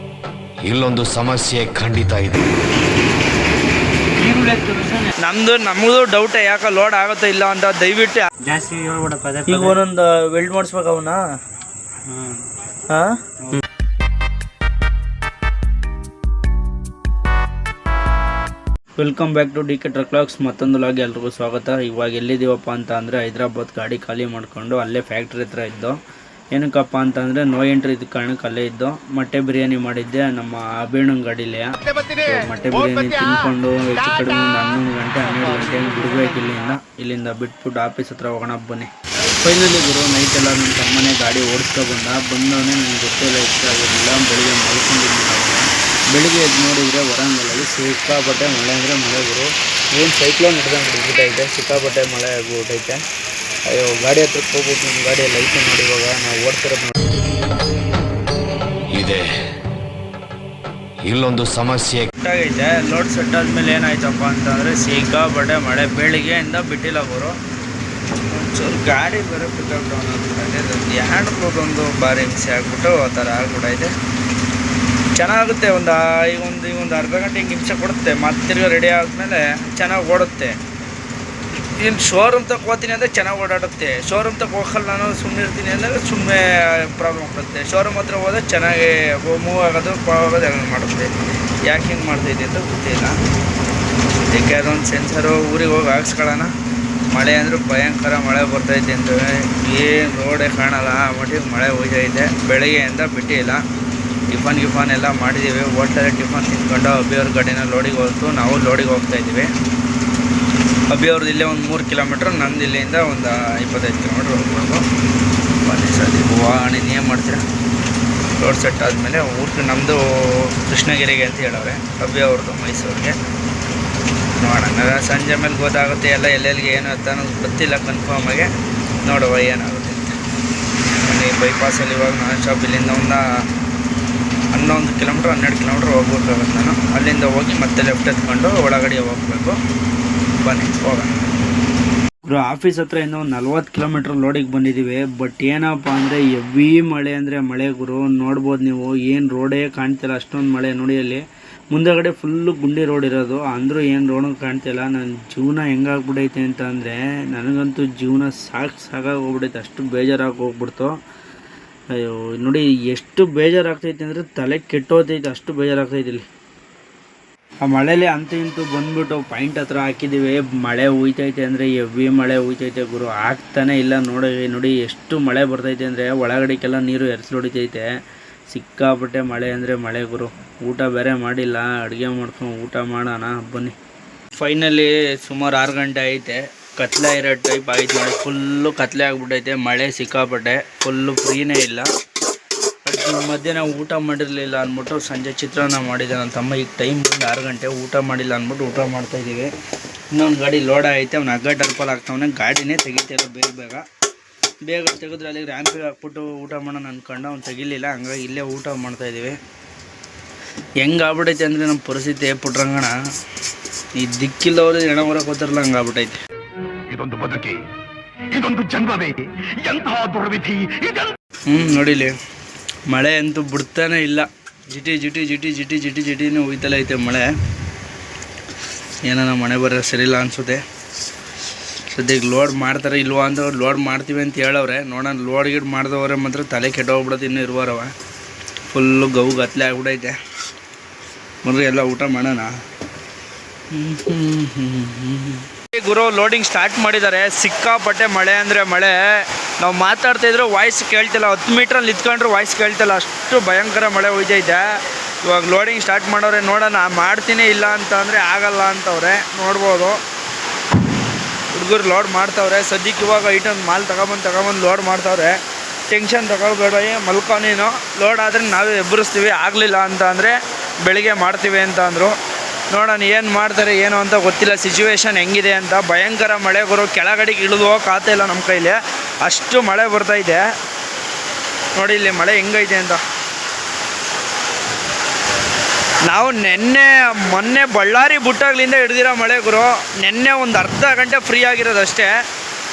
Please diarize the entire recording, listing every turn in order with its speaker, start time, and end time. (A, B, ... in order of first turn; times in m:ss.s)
0:00.6-0:02.4 A
0:04.2-0:05.1 B
0:05.2-0:08.3 C
0:08.4-0:09.8 B
0:09.5-0:11.2 C
0:12.1-0:12.4 B
0:12.9-0:13.2 C
0:19.0-0:26.0 C
0:26.5-0:38.9 C
0:39.4-0:53.0 C
0:53.7-0:56.9 C
0:58.9-0:59.3 A
1:01.0-1:02.1 A
1:02.2-1:07.4 C
1:08.3-1:13.9 C
1:15.2-1:20.6 C
1:21.8-1:31.1 C
1:31.6-1:33.2 C
1:34.2-1:36.5 C
1:37.1-1:43.6 C
1:44.3-1:49.5 C
1:50.9-1:54.8 C
1:55.6-1:57.4 C
1:58.4-2:03.2 C
2:04.4-2:08.5 C
2:09.0-2:10.2 C
2:11.0-2:13.2 C
2:14.5-2:19.6 C
2:20.4-2:21.1 C
2:22.3-2:40.9 C
2:41.9-2:46.2 C
2:47.6-2:57.9 C
2:58.5-3:03.8 C
3:04.4-3:11.9 C
3:12.8-3:19.5 C
3:20.1-3:23.8 C
3:24.6-3:29.4 C
3:30.8-3:33.0 C
3:34.0-3:36.2 C
3:36.9-3:37.6 D
3:38.3-3:41.1 D
3:41.5-3:42.1 C
3:42.9-3:47.3 C
3:49.0-3:50.6 C
3:51.9-3:57.9 C
3:58.7-4:00.2 C
4:01.4-4:02.5 C
4:03.7-4:09.0 C
4:09.6-4:14.6 C
4:15.3-4:20.0 C
4:21.5-4:25.4 C
4:25.9-4:32.2 C
4:32.7-4:40.4 C
4:41.8-4:43.0 C
4:46.0-4:52.1 C